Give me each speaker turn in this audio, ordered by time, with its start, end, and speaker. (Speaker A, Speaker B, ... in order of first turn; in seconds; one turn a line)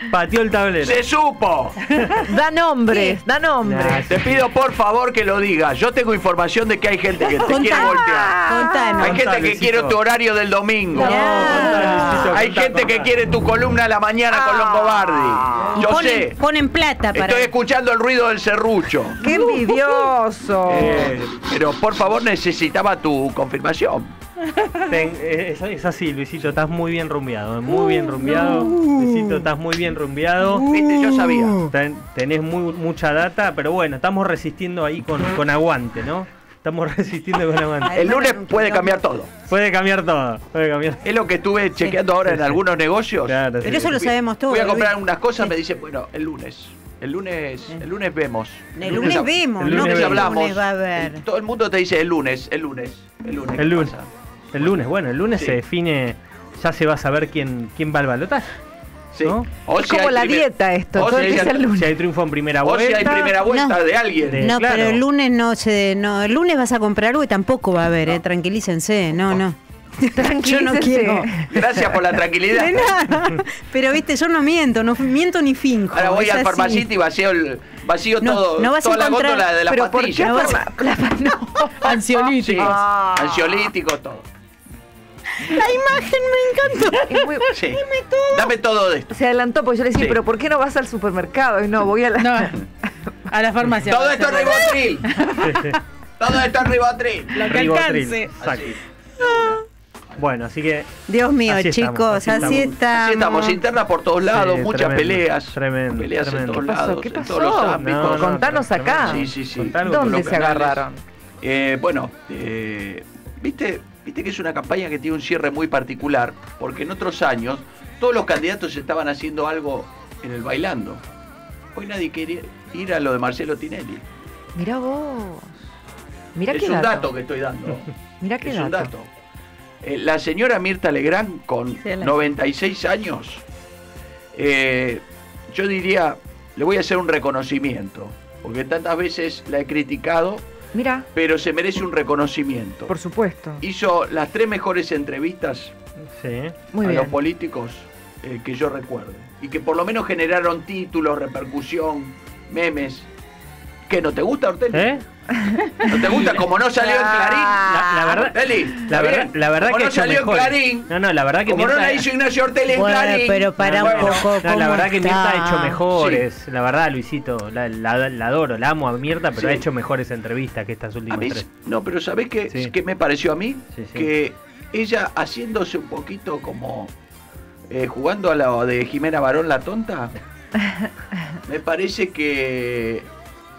Speaker A: 0.1-1.0
Speaker B: 0.8-1.8
Speaker C: 2.3-4.1
Speaker A: 3.6-4.4
Speaker B: 4.1-8.4
Speaker C: 7.3-9.0
Speaker D: 7.4-9.2
Speaker B: 9.0-16.4
Speaker A: 9.0-10.0
Speaker D: 10.9-12.3
Speaker A: 11.0-13.1
Speaker C: 11.2-11.8
Speaker C: 14.3-15.6
Speaker D: 15.8-17.5
Speaker B: 17.1-19.2
Speaker C: 19.2-21.2
Speaker D: 19.2-20.1
Speaker B: 20.7-24.1
Speaker A: 24.9-30.6
Speaker D: 27.7-29.4
Speaker D: 30.5-31.7
Speaker B: 30.6-31.7
Speaker A: 31.7-37.9
Speaker D: 37.8-39.1
Speaker B: 38.0-39.3
Speaker A: 39.5-41.0
Speaker B: 41.0-54.1
Speaker A: 42.3-42.6
Speaker A: 43.3-44.0
Speaker D: 43.6-45.5
Speaker D: 48.8-51.2
Speaker A: 48.9-50.4
Speaker A: 53.6-53.9
Speaker A: 54.5-58.6
Speaker B: 55.3-55.6
Speaker B: 59.1-61.6
Speaker C: 59.8-62.0
Speaker A: 61.0-63.4
Speaker B: 62.6-64.4
Speaker D: 63.5-63.8
Speaker A: 64.3-65.0
Speaker D: 64.4-71.5
Speaker C: 70.1-72.2
Speaker B: 71.5-73.2
Speaker D: 72.5-76.9
Speaker B: 75.9-80.6
Speaker D: 78.2-79.5
Speaker C: 79.7-83.2
Speaker D: 80.2-80.7
Speaker E: 81.8-82.8
Speaker B: 82.4-84.3
Speaker D: 85.4-88.5
Speaker C: 87.1-87.5
Speaker B: 87.5-89.1
Speaker C: 89.1-92.6
Speaker E: 92.2-92.5
Speaker E: 93.3-94.8
Speaker B: 93.8-95.0
Speaker A: 95.4-95.8
Speaker B: 96.2-97.4
Speaker E: 97.3-98.3
Speaker A: 97.5-98.7
Speaker B: 98.4-99.6
Speaker A: 100.2-100.9
Speaker D: 101.1-103.6
Speaker A: 101.5-102.7
Speaker B: 102.3-108.4
Speaker A: 104.3-106.6
Speaker C: 106.5-111.0
Speaker A: 107.8-110.4
Speaker B: 109.0-110.8
Speaker B: 111.4-121.0
Speaker B: 121.7-124.0
Speaker C: 124.5-125.5
Speaker C: 126.3-127.1
Speaker B: 126.5-129.1
Speaker C: 128.2-128.9
Speaker B: 129.8-133.4
Speaker D: 131.8-132.2
Speaker B: 134.3-140.4
Speaker C: 140.7-141.1
Speaker B: 141.1-142.9
Speaker C: 142.9-143.6
Speaker B: 143.6-145.7
Speaker A: 146.1-146.5
Speaker C: 146.7-147.2
Speaker B: 146.8-153.1
Speaker B: 153.9-155.0
Speaker A: 154.7-155.0
Speaker C: 155.4-157.6
Speaker B: 155.9-160.9
Speaker A: 157.6-162.1
Speaker B: 161.5-164.3
Speaker D: 162.7-165.8
Speaker A: 163.6-171.5
Speaker B: 165.9-166.2
Speaker B: 169.3-169.7
Speaker B: 171.1-176.9
Speaker A: 173.7-174.1
Speaker B: 177.7-180.1
Speaker B: 181.5-183.1